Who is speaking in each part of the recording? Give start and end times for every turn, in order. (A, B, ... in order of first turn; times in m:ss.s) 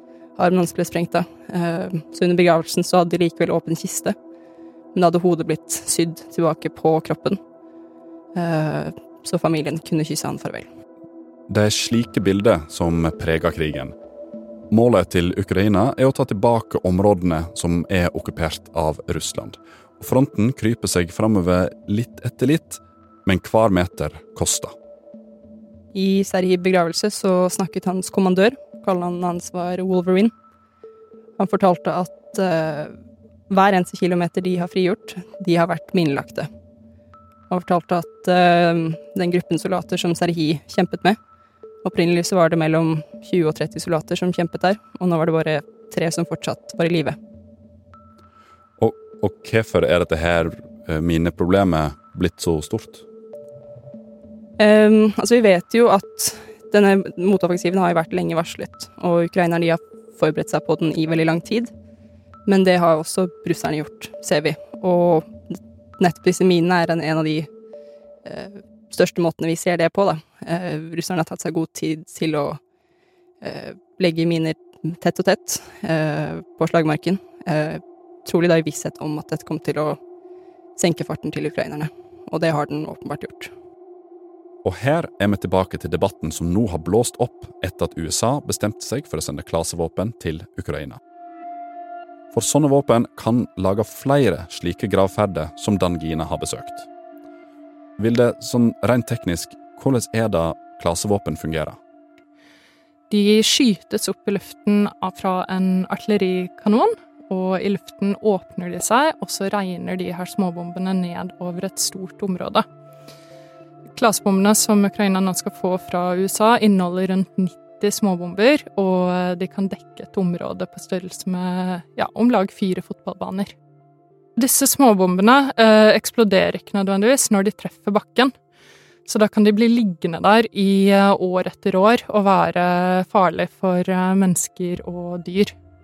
0:00.4-0:04.2 A
0:05.0-0:07.4 A
0:08.4-0:10.7 A
0:11.5-0:14.0 B
0:14.7-0:24.7 B
0:25.9-0:30.3 A
0:31.4-0:32.9 A
0:33.5-0:36.5 A
0:37.5-0:41.2 A
0:41.8-0:47.2 A
0:48.8-0:53.0 B
0:54.6-1:01.7 A
1:02.5-1:07.5 A
1:08.3-1:12.6 A
1:13.4-1:20.0 A
1:20.8-1:23.5 A
1:24.6-1:31.0 B
1:32.3-1:36.9 B
1:38.0-1:41.8 B
1:43.1-1:52.6 C
1:54.0-2:03.5 C
2:04.4-2:08.3 C
2:09.1-2:15.5 C